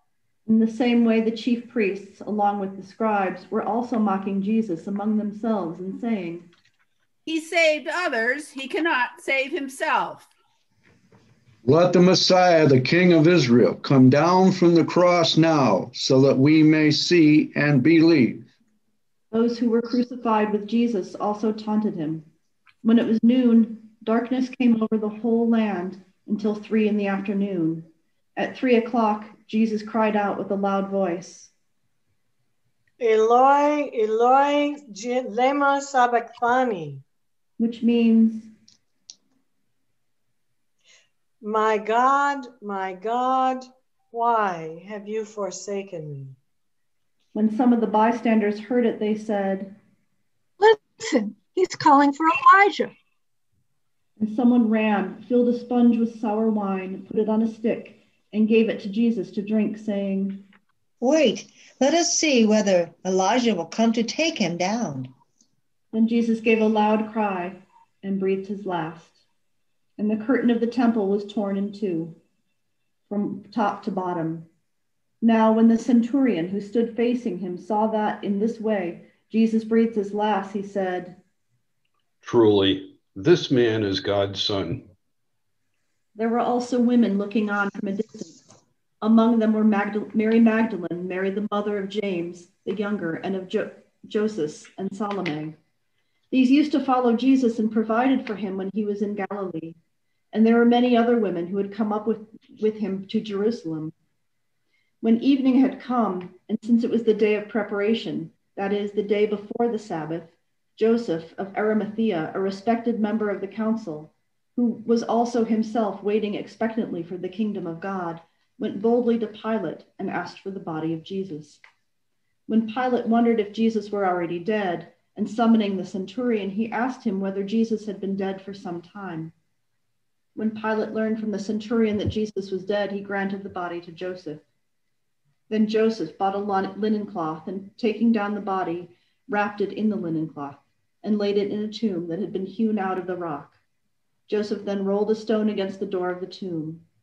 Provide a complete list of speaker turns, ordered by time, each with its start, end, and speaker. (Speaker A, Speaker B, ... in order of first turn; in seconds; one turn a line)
Speaker A: 0.5-6.5
Speaker B: 7.3-10.3
Speaker C: 11.6-18.4
Speaker A: 19.3-22.3
Speaker A: 22.8-31.5
Speaker D: 33.0-37.0
Speaker A: 37.6-38.5
Speaker D: 41.4-46.4
Speaker A: 47.3-49.8
Speaker E: 50.6-52.9
Speaker A: 54.2-60.4
Speaker F: 61.0-65.1
Speaker A: 65.9-69.2
Speaker A: 70.0-72.2
Speaker A: 73.1-74.5
Speaker A: 75.2-81.2
Speaker G: 82.2-84.8
Speaker A: 86.1-88.4
Speaker A: 89.0-95.6
Speaker A: 96.3-99.8
Speaker A: 100.3-103.9
Speaker A: 105.0-121.6
Speaker A: 122.5-129.3
Speaker A: 130.3-134.4
Speaker A: 135.5-143.6
Speaker A: 144.3-146.8